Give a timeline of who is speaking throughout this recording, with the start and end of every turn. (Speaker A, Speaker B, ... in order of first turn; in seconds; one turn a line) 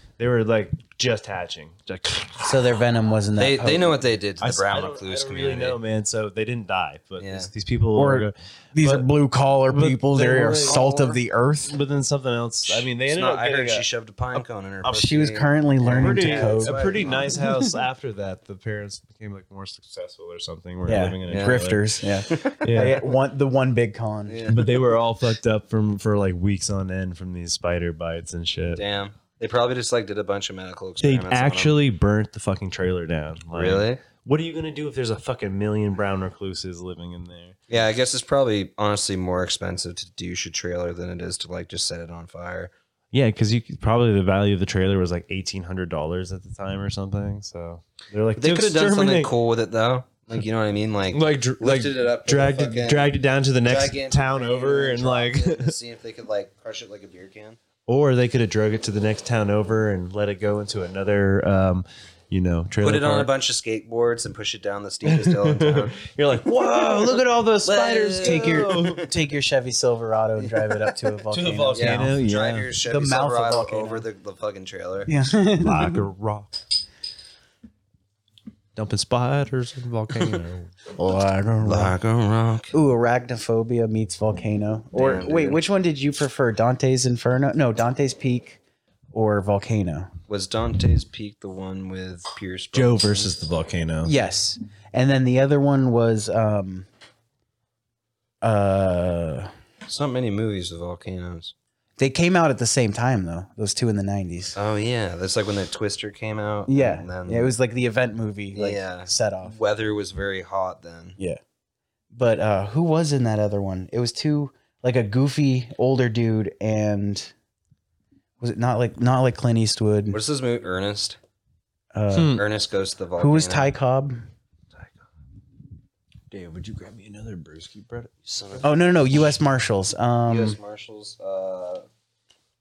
Speaker A: 0.2-2.5
Speaker B: 2.4-4.0
Speaker C: 3.4-5.8
Speaker A: 4.4-9.1
Speaker C: 7.2-7.5
Speaker B: 7.9-11.7
Speaker A: 9.7-10.8
Speaker C: 10.6-11.2
Speaker A: 11.7-14.4
Speaker C: 12.7-17.4
Speaker B: 14.8-17.7
Speaker A: 15.9-21.8
Speaker B: 20.8-24.5
Speaker C: 21.3-21.6
Speaker C: 22.3-22.6
Speaker A: 22.6-23.0
Speaker C: 24.3-24.8
Speaker A: 24.5-28.8
Speaker C: 28.7-31.8
Speaker A: 31.0-37.6
Speaker C: 33.5-34.0
Speaker C: 37.7-42.7
Speaker A: 43.1-49.3
Speaker C: 48.4-53.1
Speaker A: 51.1-55.7
Speaker C: 53.6-57.6
Speaker A: 57.9-63.3
Speaker C: 62.8-66.0
Speaker A: 65.0-69.1
Speaker B: 67.0-72.2
Speaker C: 67.6-68.9
Speaker C: 70.4-70.9
Speaker A: 71.3-72.7
Speaker C: 71.7-75.1
Speaker B: 72.8-74.0
Speaker B: 75.0-76.0
Speaker A: 75.6-76.5
Speaker A: 78.8-80.7
Speaker B: 80.9-81.9
Speaker C: 81.6-82.7
Speaker B: 82.7-88.6
Speaker C: 84.9-85.6
Speaker B: 89.1-90.1
Speaker C: 90.3-93.3
Speaker A: 92.7-94.1
Speaker B: 94.0-96.9
Speaker B: 98.4-99.5
Speaker C: 99.8-101.5
Speaker B: 102.0-104.5
Speaker C: 104.5-107.5
Speaker B: 106.7-109.5
Speaker C: 108.5-111.2
Speaker B: 112.1-117.3
Speaker B: 118.4-120.2
Speaker C: 120.1-121.2
Speaker B: 121.9-122.4
Speaker A: 122.1-122.4
Speaker C: 122.3-123.7
Speaker B: 123.2-124.2
Speaker A: 126.3-128.1
Speaker C: 128.2-128.8
Speaker B: 128.6-130.6
Speaker C: 130.3-131.8